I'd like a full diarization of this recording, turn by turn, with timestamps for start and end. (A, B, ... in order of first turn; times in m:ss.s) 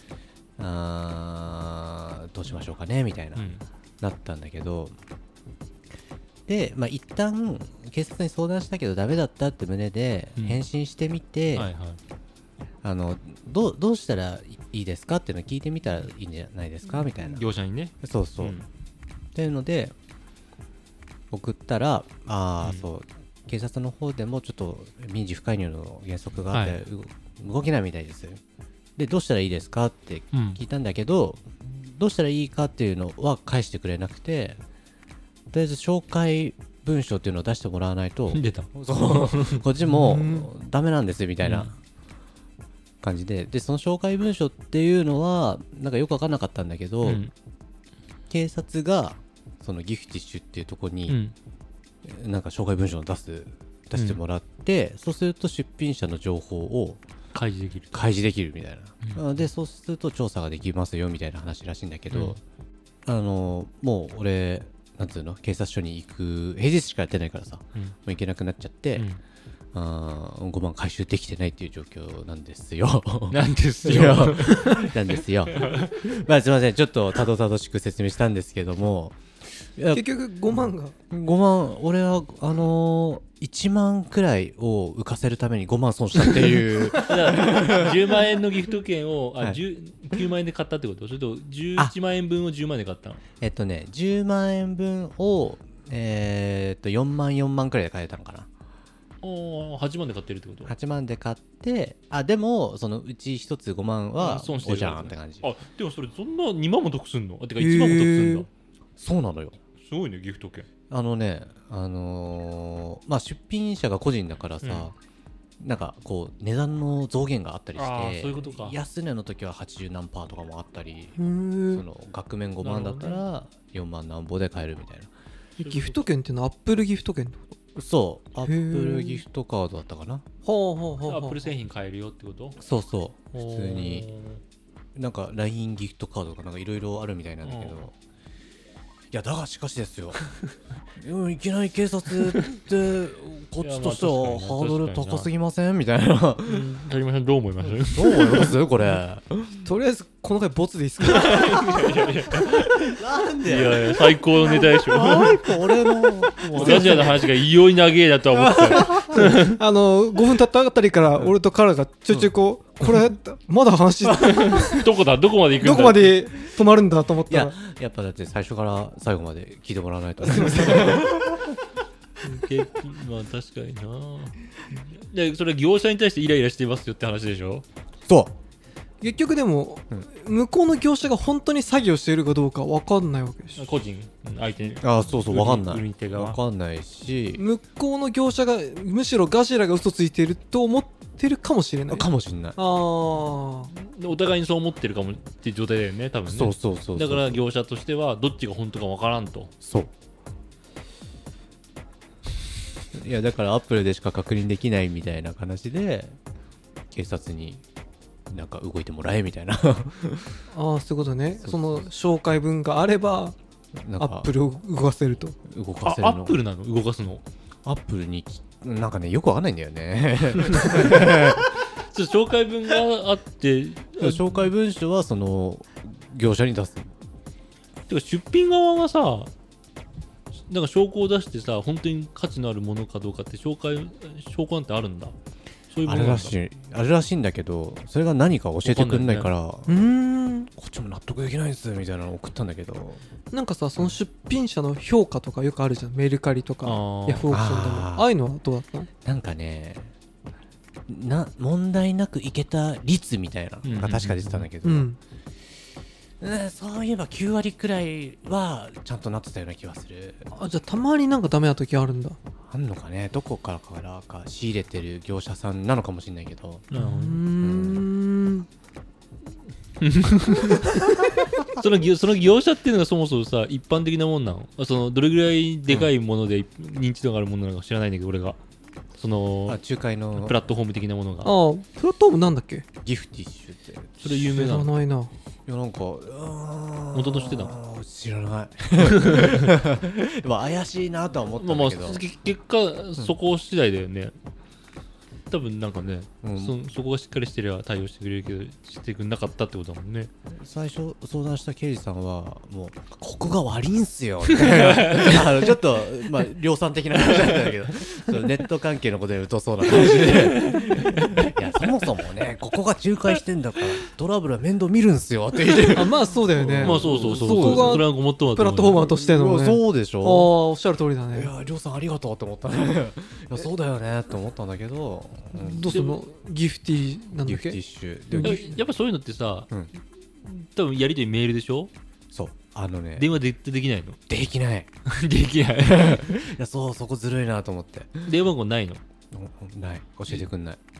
0:00.6-0:03.5 A
0:03.4-0:03.6 B
0:04.0-0:05.0 A
0:06.5-0:11.7 A
0:10.4-0:10.6 B
0:11.6-0:12.0 B
0:12.8-0:17.5 A
0:16.9-0:18.7 B
0:18.0-0:18.6 A
0:19.4-0:19.9 A
0:21.3-0:28.4 A
0:22.6-0:22.9 B
0:26.5-0:26.8 B
0:29.0-0:34.6 A
0:30.3-0:30.6 B
0:35.5-0:41.8 A
0:38.3-0:39.6 B
0:39.9-0:40.5 C
0:41.4-0:41.7 B
0:43.0-0:47.2 A
0:47.0-0:47.3 B
0:48.3-0:51.2 A
0:51.1-0:51.3 B
0:52.0-0:57.0 A
0:53.9-0:54.2 B
0:57.3-0:58.0 B
0:57.9-1:02.4 A
1:02.1-1:02.4 B
1:03.1-1:09.1 A
1:09.7-1:19.2 A
1:13.3-1:14.9 B
1:15.6-1:15.9 B
1:19.8-1:20.0 A
1:19.9-1:21.0 C
1:20.5-1:28.2 A
1:26.9-1:33.2 B
1:33.4-1:38.5 A
1:39.2-1:40.7 B
1:40.6-1:45.5 A
1:44.2-1:48.5 B
1:47.6-1:48.5 C
1:49.0-1:49.6 A
1:49.8-1:50.7 B
1:50.9-1:54.9 A
1:54.6-1:54.9 B
1:55.6-2:01.2 A
1:57.8-1:58.8 B
2:01.2-2:01.8 C
2:01.7-2:05.1 A
2:02.6-2:03.2 B
2:05.6-2:07.4 C
2:05.6-2:06.0 B
2:07.8-2:10.2 A
2:08.4-2:09.2 C
2:10.4-2:11.5 C
2:11.0-2:12.6 B
2:12.6-2:14.1 A
2:13.3-2:14.4 B
2:15.0-2:17.9 A
2:17.4-2:17.9 B
2:19.1-2:20.2 A
2:21.0-2:26.7 A
2:23.6-2:25.3 B
2:26.5-2:28.5 B
2:27.6-2:29.6 A
2:29.6-2:32.0 C
2:31.0-2:32.7 B
2:32.5-2:37.2 A
2:33.4-2:35.3 B
2:36.5-2:37.1 C
2:36.5-2:39.6 B
2:38.3-2:39.1 A
2:38.9-2:44.9 C
2:44.2-2:46.2 B
2:44.2-2:44.5 A
2:45.6-2:47.6 C
2:47.3-2:51.5 A
2:50.3-2:51.0 C
2:52.2-2:57.6 B
2:58.1-2:58.4 A
2:59.0-3:03.6 C
3:03.6-3:06.4 B
3:04.8-3:07.4 A
3:07.4-3:13.7 C
3:11.9-3:12.6 A
3:13.7-3:19.5 B
3:16.3-3:17.4 A
3:19.6-3:19.9 A
3:22.9-3:26.2 A
3:26.9-3:27.6 A
3:28.3-3:30.4 A
3:30.5-3:33.4 C
3:31.4-3:31.9 A
3:33.8-3:34.3 A
3:34.0-3:35.4 C
3:35.4-3:36.4 A
3:35.8-3:37.2 B
3:37.6-3:41.5 A
3:40.5-3:41.2 B
3:41.8-3:44.5 B
3:44.0-3:46.9 A
3:47.9-3:49.3 B
3:50.5-3:55.2 B
3:55.7-3:56.4 B
3:55.8-3:59.9 A
3:58.6-3:59.3 B
3:59.7-4:00.5 C
4:00.5-4:03.0 A
4:03.3-4:08.9 C
4:06.6-4:07.4 B
4:07.3-4:08.1 A
4:09.0-4:09.9 A
4:10.9-4:14.9 A
4:13.6-4:14.5 B
4:14.6-4:15.0 C
4:16.2-4:20.3 A
4:20.3-4:22.2 C
4:22.5-4:26.7 A
4:26.7-4:27.2 B
4:26.7-4:28.5 C
4:27.4-4:27.9 A
4:29.8-4:30.9 B
4:31.5-4:38.4 B
4:39.0-4:39.6 B
4:39.5-4:40.4 A
4:40.2-4:41.3 B
4:41.2-4:42.6 C
4:42.8-4:44.2 A
4:44.0-4:44.7 B
4:44.2-4:45.1 C
4:45.5-4:52.0 A
4:46.9-4:47.6 B
4:48.8-4:49.6 B
4:51.4-4:54.1 B
4:55.3-5:00.1 B
4:56.2-4:56.6 A
5:00.3-5:17.8 A
5:04.3-5:05.3 B
5:09.7-5:11.3 B
5:15.7-5:21.3 C
5:16.6-5:18.9 B
5:19.0-5:20.3 A
5:21.1-5:25.8 A
5:25.3-5:27.6 C
5:25.7-5:26.0 B
5:27.2-5:28.5 A
5:28.1-5:28.6 C
5:28.2-5:29.5 B
5:30.2-5:31.7 B
5:32.1-5:33.1 A
5:33.0-5:34.0 B
5:34.1-5:34.7 A
5:34.9-5:36.1 B
5:35.6-5:38.1 A
5:38.1-5:38.8 B
5:39.1-5:40.6 A